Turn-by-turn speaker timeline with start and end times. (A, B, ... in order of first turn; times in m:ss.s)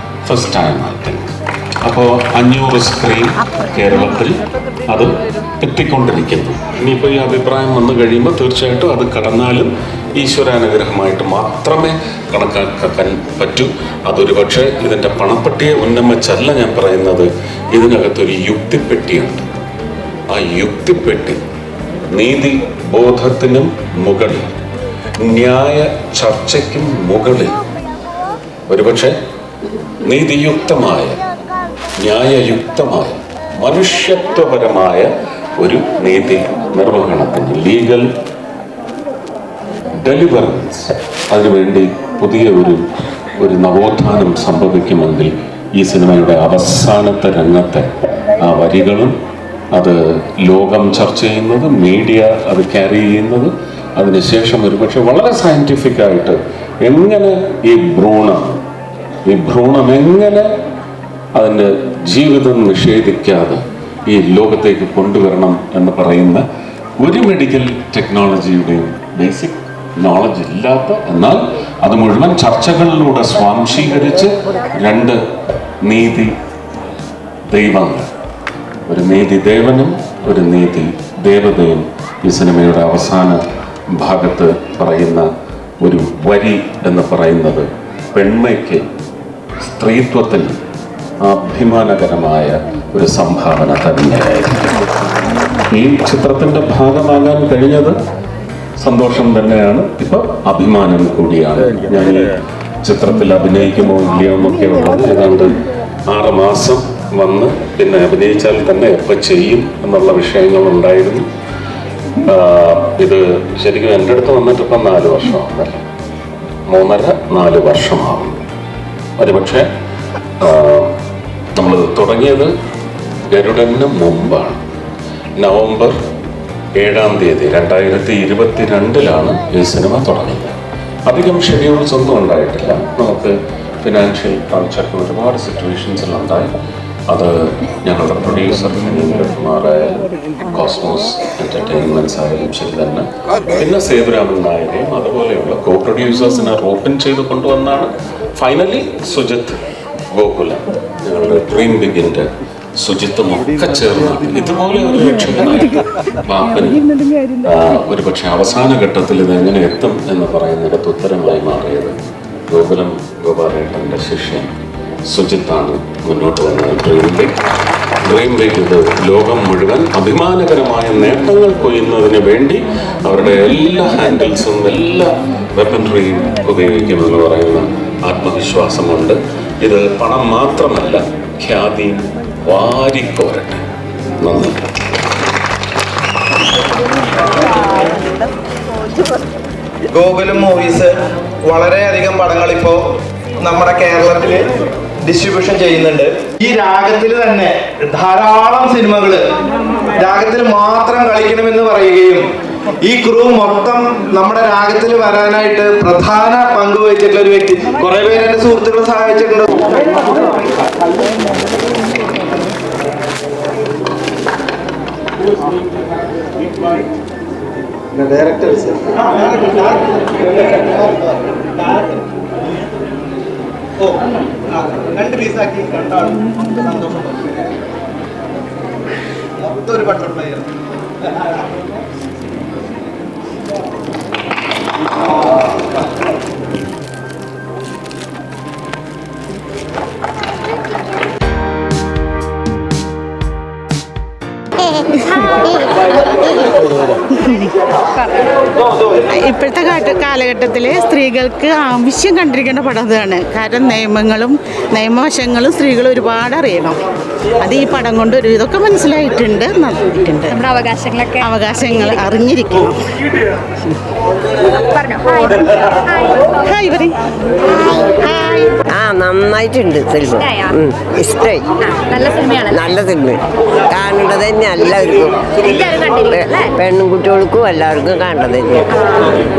0:00.2-0:19.5 A
0:20.3-0:21.4 A
0:22.1-0:24.5 A
0:25.2-0:27.6 A
0:28.7-0:29.2 A
0:30.0-0:31.2 A
0:32.0-0:35.1 A
0:35.6-0:38.1 A
0:40.0-0:42.8 A
0:43.4-0:47.9 A
0:48.4-0:49.2 A
0:49.7-0:58.6 A
0:59.3-1:00.5 A
1:01.4-1:06.4 A
1:07.0-1:15.2 A
1:15.8-1:16.3 A
1:17.5-1:18.1 A
1:18.9-1:23.4 A
1:23.9-1:25.3 A
1:25.8-1:28.8 A
1:29.6-1:30.6 A
1:31.2-1:34.7 A
1:35.7-1:38.0 A
1:38.8-1:51.2 A
1:52.2-1:55.8 A
1:56.7-1:58.4 A
1:59.2-1:59.7 A
2:00.4-2:01.0 A
2:01.6-2:02.5 A
2:03.3-2:04.6 A
2:05.4-2:06.0 A
2:06.8-2:10.6 A
2:11.1-2:16.5 A
2:17.1-2:29.6 A
2:30.1-2:32.3 A
2:32.8-2:36.8 A
2:37.4-2:42.0 A
2:42.5-2:44.5 A
2:45.1-2:47.4 A
2:48.0-3:03.6 A
3:04.2-3:04.6 A
3:09.9-3:10.9 B
3:11.4-3:12.9 B
3:13.4-3:14.5 B
3:15.0-3:19.3 B
3:20.0-3:22.2 B
3:22.8-3:29.6 B
3:39.0-3:41.9 B
3:44.6-3:47.3 B
3:49.4-3:50.5 B
4:09.1-4:16.8 C
4:17.4-4:20.4 C
4:20.3-4:21.3 D
4:21.2-4:22.8 C
4:24.6-4:25.4 D
4:26.4-4:26.9 C
4:28.0-4:28.6 C
4:28.7-4:31.4 E
4:30.2-4:30.5 D
4:31.6-4:32.7 D
4:32.5-4:33.2 E
4:33.7-4:35.3 E
4:35.4-4:36.5 D
4:36.1-4:38.7 E